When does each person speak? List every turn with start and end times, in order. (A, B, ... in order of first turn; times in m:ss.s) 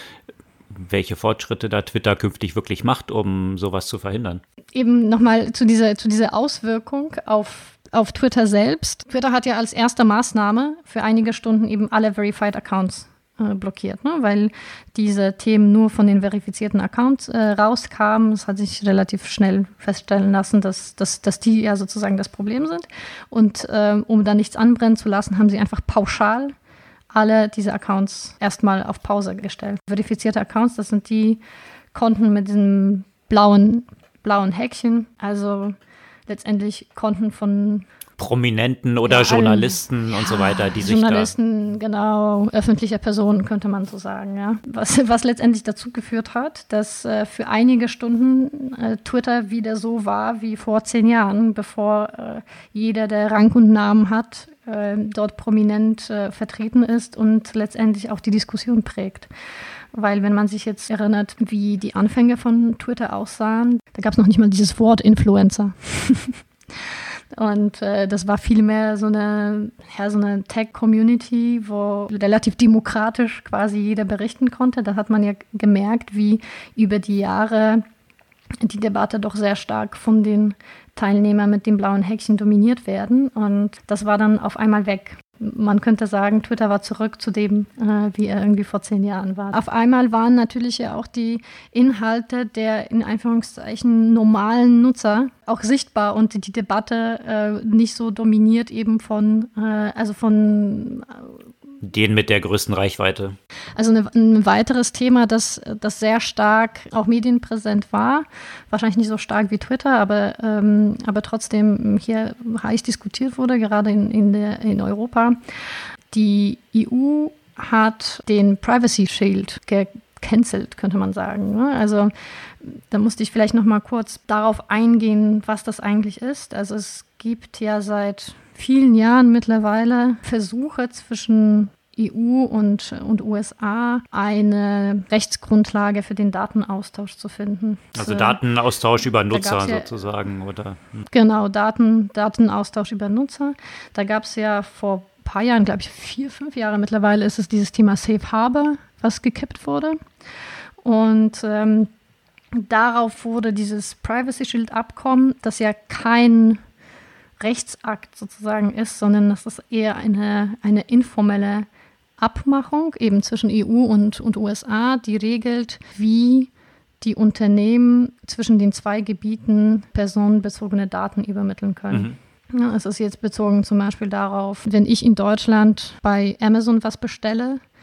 0:00.7-0:04.4 A
0:04.7-0:26.5 B
0:27.1-0:31.4 B
0:31.9-0:35.8 B
0:36.3-0:37.9 B
0:38.2-0:41.3 A
0:39.1-0:59.3 B
0:59.9-1:06.4 B
1:06.9-1:17.8 B
1:18.6-1:41.3 B
1:41.8-1:43.4 A
1:43.8-1:55.4 B
1:56.1-2:18.4 B
2:17.9-2:21.0 A
2:19.3-2:19.9 B
2:21.1-2:30.0 B
2:30.8-2:31.9 B
2:32.5-2:36.6 B
2:37.4-2:41.7 B
2:42.2-2:46.5 B
2:47.0-2:57.6 B